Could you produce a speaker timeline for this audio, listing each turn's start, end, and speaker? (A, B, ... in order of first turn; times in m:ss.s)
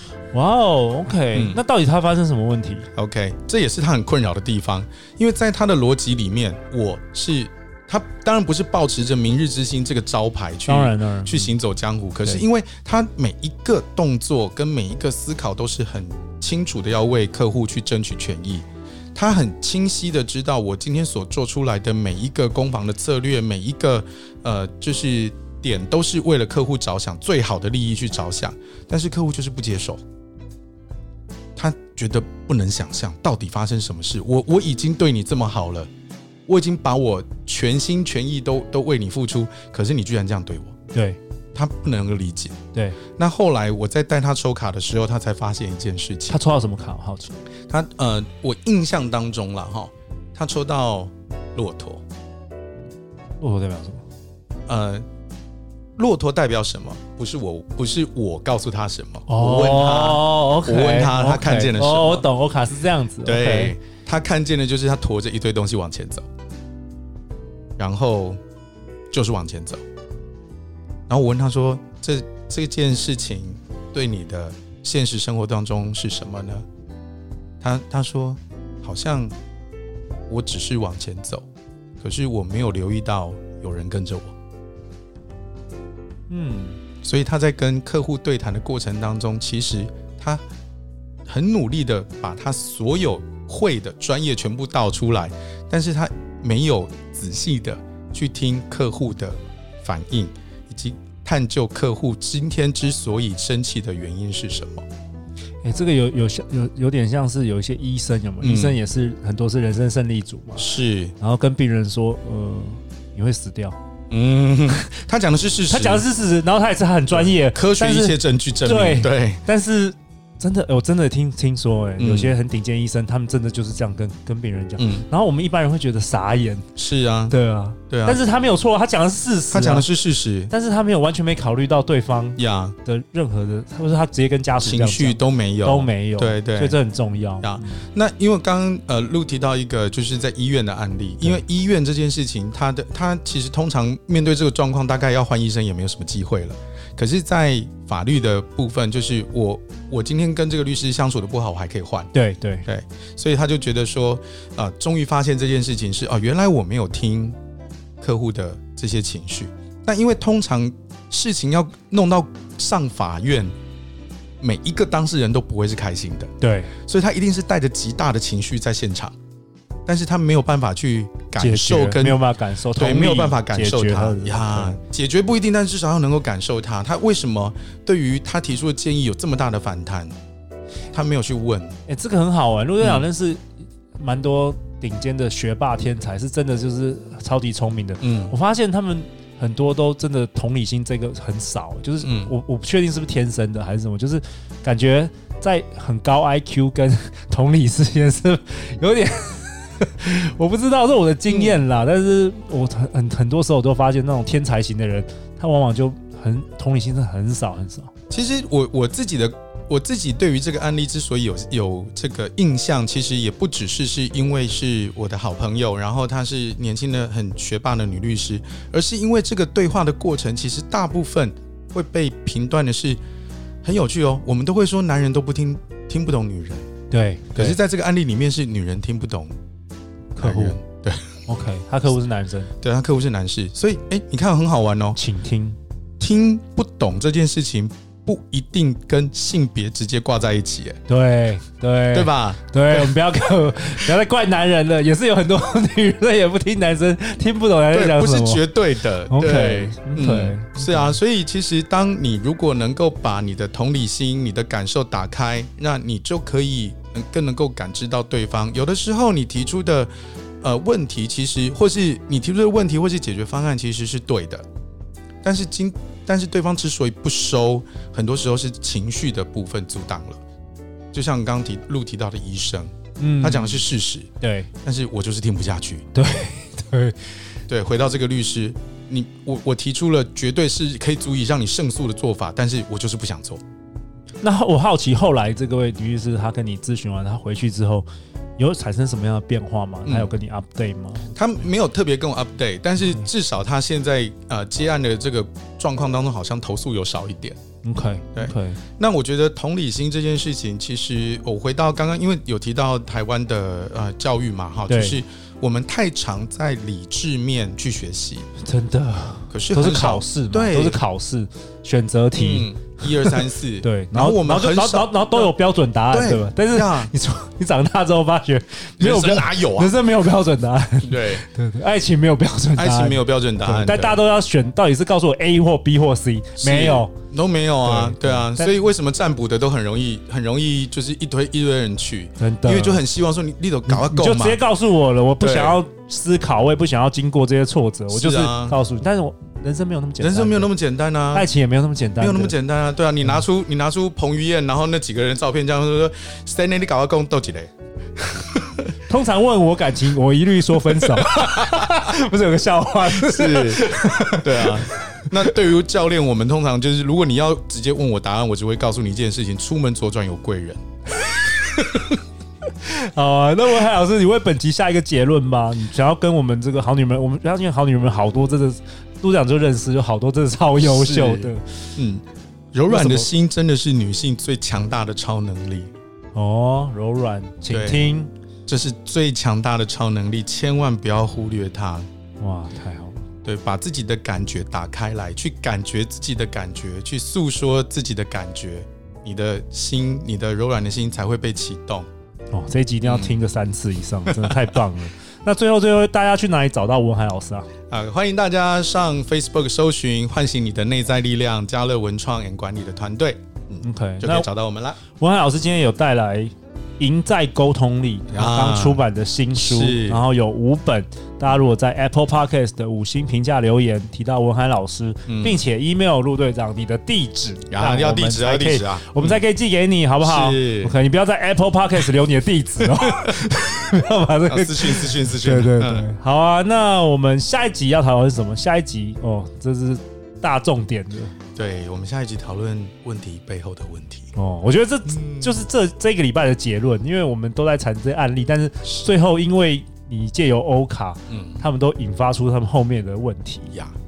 0:00.3-0:02.9 A
0:01.3-0:01.6 B
0:03.0-0:30.0 B
0:10.7-0:11.6 A
0:31.6-0:35.9 B
0:36.5-0:40.7 B
0:40.9-0:41.2 A
0:41.6-0:42.6 B
0:42.7-0:43.0 A
0:43.2-0:46.4 B
0:46.3-0:47.4 A
0:47.7-0:52.0 B
0:53.4-0:54.0 A
0:54.7-0:55.0 B
0:56.0-1:02.3 B
0:59.3-1:03.8 A
1:03.2-1:06.2 B
1:07.8-1:08.4 B
1:09.1-1:09.8 B
1:11.1-1:16.6 B
1:17.6-1:19.3 B
1:20.3-1:21.4 B
1:22.0-1:24.3 B
1:26.3-1:26.8 A
1:27.0-1:30.4 B
1:31.3-1:44.9 B
1:45.6-1:53.8 A
1:48.4-1:48.8 B
1:50.6-1:51.2 B
1:54.1-1:56.0 B
1:55.7-2:06.7 A
1:57.1-1:59.4 B
2:02.0-2:02.4 B
2:04.8-2:05.1 B
2:06.8-2:07.4 B
2:07.3-2:09.9 A
2:07.9-2:08.2 B
2:09.5-2:10.5 B
2:10.5-2:17.9 A
2:12.4-2:12.8 B
2:14.6-2:16.8 B
2:17.4-2:32.1 B
2:32.1-2:32.7 A
2:32.7-2:37.4 B
2:38.0-2:43.5 B
2:44.4-2:46.3 B
2:46.4-2:46.7 A
2:46.9-2:49.2 B
2:49.9-2:52.2 B
2:51.4-2:54.8 A
2:52.8-3:00.2 B
3:00.9-3:01.8 B
3:01.9-3:03.4 A
3:02.8-3:03.1 B
3:04.0-3:27.9 A
3:08.0-3:08.3 B
3:12.0-3:12.3 B
3:21.3-3:21.6 B
3:28.1-3:43.0 B
3:43.6-3:46.7 B
3:46.9-3:47.6 A
3:47.4-3:49.4 B
3:50.2-3:50.6 A
3:50.2-3:51.1 B
3:51.3-3:52.5 A
3:52.6-3:55.0 B
3:55.0-3:55.6 A
3:56.0-4:00.8 B
4:00.9-4:08.4 A
4:01.9-4:03.0 B
4:07.7-4:24.4 B
4:09.1-4:11.0 A
4:25.2-4:30.2 B
4:30.9-4:34.1 B
4:33.0-4:33.7 A
4:34.2-4:34.5 A
4:34.6-4:35.9 B
4:35.9-4:37.0 A
4:37.5-4:43.4 B
4:44.2-4:47.9 A
4:48.4-4:51.1 A
4:49.9-4:50.1 B
4:51.1-4:57.4 B
4:57.6-4:58.6 A
4:58.2-5:08.3 B
5:04.7-5:05.0 A
5:08.4-5:26.9 A
5:09.3-5:10.8 B
5:12.2-5:15.3 B
5:15.9-5:16.9 B
5:18.8-5:19.8 B
5:20.8-5:21.2 B
5:22.6-5:24.0 B
5:26.4-5:34.4 B
5:27.6-5:28.5 A
5:32.2-5:32.8 A
5:33.7-5:40.5 A
5:35.2-5:35.6 B
5:37.9-5:38.6 B
5:40.0-5:41.3 B
5:41.1-5:42.4 A
5:42.0-5:48.6 B
5:48.9-5:55.3 A
5:50.8-5:51.5 B
5:52.9-6:00.6 B
6:01.1-6:01.6 A
6:02.6-6:11.4 A
6:10.6-6:15.7 B
6:12.7-6:13.1 A
6:16.2-6:18.1 A
6:17.5-6:17.9 B
6:18.5-6:21.9 B
6:22.2-6:23.0 A
6:23.2-6:31.9 B
6:32.3-6:37.5 A
6:32.8-6:33.2 B
6:34.1-6:34.6 B
6:37.7-6:44.8 B
6:43.6-6:44.3 A
6:44.9-7:11.1 A
6:48.1-6:48.8 B
6:49.4-6:50.0 B
6:55.1-6:55.4 B
6:57.5-6:59.2 B
7:00.0-7:00.8 B
7:02.6-7:03.5 B
7:04.3-7:05.9 B
7:11.4-7:14.1 B
7:14.2-7:23.6 A
7:14.9-7:15.4 B
7:21.1-7:21.4 B